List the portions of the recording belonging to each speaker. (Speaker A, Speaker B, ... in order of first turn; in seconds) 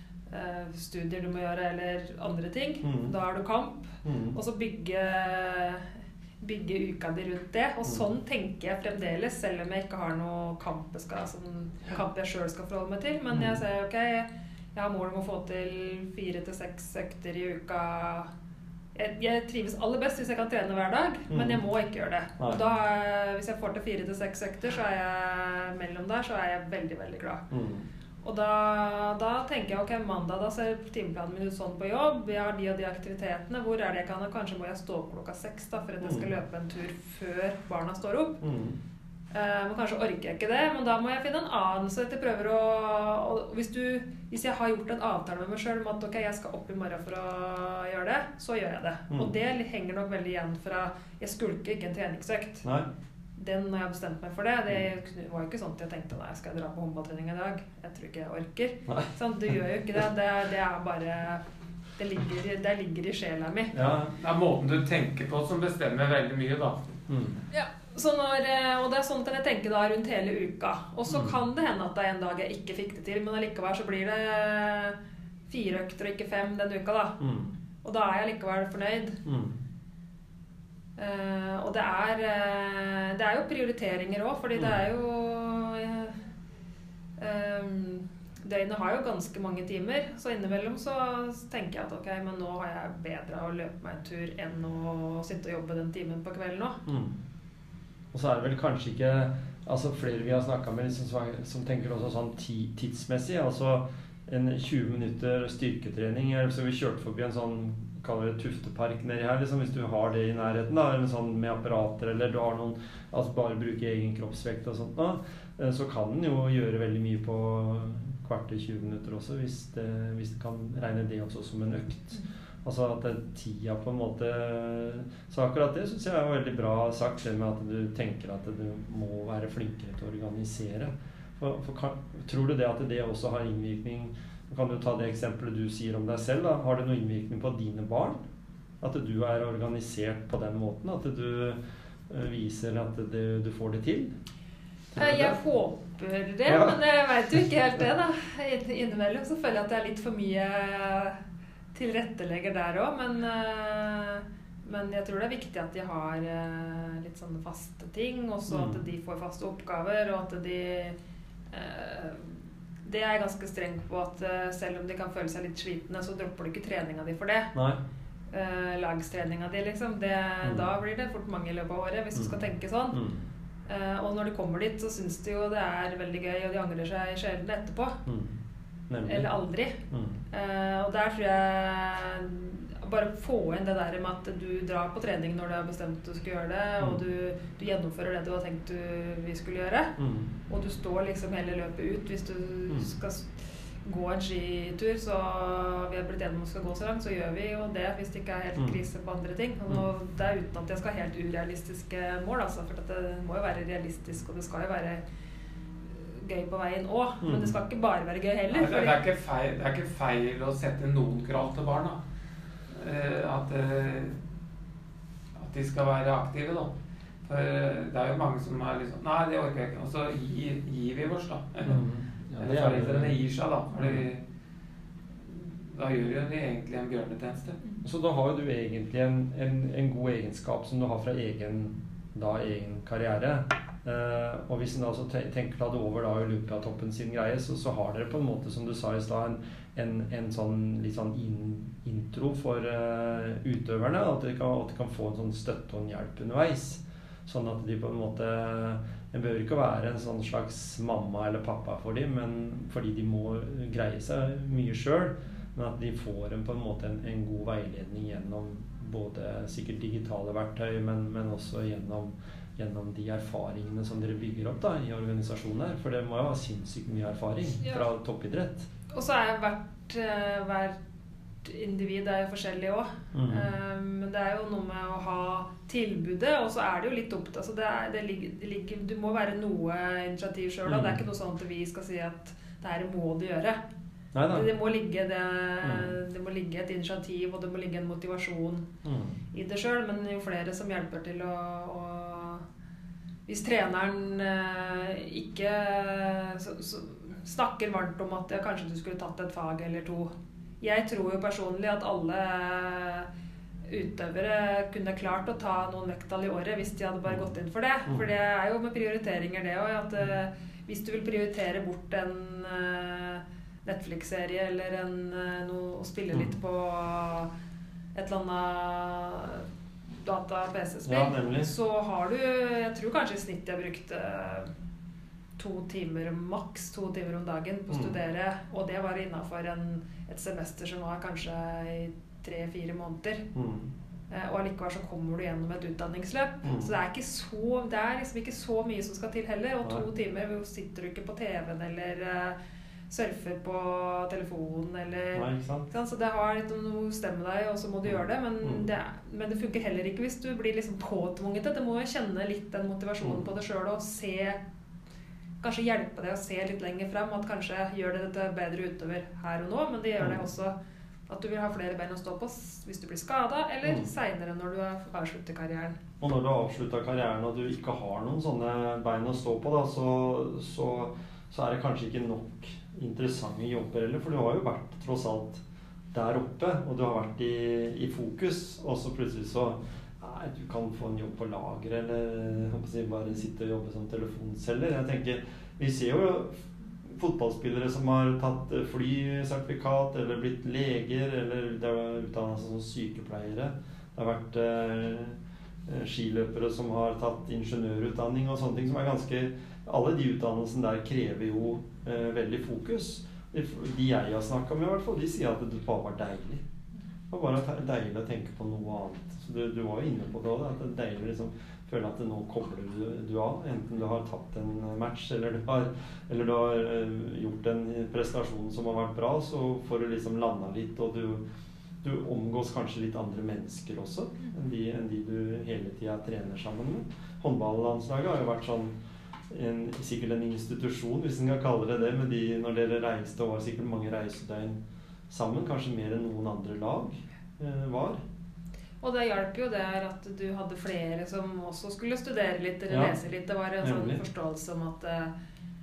Speaker A: 0.3-5.9, 6.4-18.3, 18.9-27.4, 28.2-38.4, 39.3-52.7, 53.4-61.4, 62.0-63.8, 67.5-75.0, 75.5-77.2, 77.8-79.2, 81.0-86.2, 87.2-96.8, 145.0-151.2, 151.7-161.0, 161.5-167.5, 168.3-173.0, 173.7-178.0, 179.1-179.8, 180.3-189.9, 190.5-193.3, 193.8-205.0, 205.9-209.0, 268.9-270.8, 271.4-283.6, 284.3-288.7, 289.3-292.4, 293.3-303.1, 303.7-317.3, 317.9-324.5, 325.4-333.2, 334.1-342.4, 342.9-354.4, 355.4-360.6, 361.1-365.8, 438.8-445.1
Speaker B: 2.8-3.1, 4.0-4.4, 13.3-13.6, 21.3-21.6, 27.5-27.9, 36.0-36.3, 38.4-38.8, 63.7-64.1, 67.1-67.4, 71.1-71.4, 77.2-77.5, 79.2-79.6, 96.9-97.2, 98.1-138.2, 138.8-144.2, 144.9-145.4, 146.5-146.8, 158.5-158.8, 167.5-167.8, 172.2-172.4, 172.9-173.2, 178.1-178.3, 178.9-179.3, 179.9-180.2, 190.0-190.3, 207.2-207.6, 221.7-223.2, 223.7-224.1, 227.8-268.7, 273.1-273.5, 280.7-281.0, 284.1-284.5, 285.6-285.9, 288.8-289.2, 307.1-307.3, 320.9-321.5, 327.7-328.0, 333.3-333.7, 336.4-336.7, 345.1-345.7, 347.9-348.7, 366.0-375.4, 375.9-406.4, 407.1-421.2, 421.8-428.7, 429.3-434.6, 435.1-438.0, 442.7-443.0, 443.6-444.0
Speaker C: 64.2-66.8, 208.5-212.0, 212.7-214.2, 215.4-216.7, 217.2-221.8, 222.4-224.2, 225.7-227.6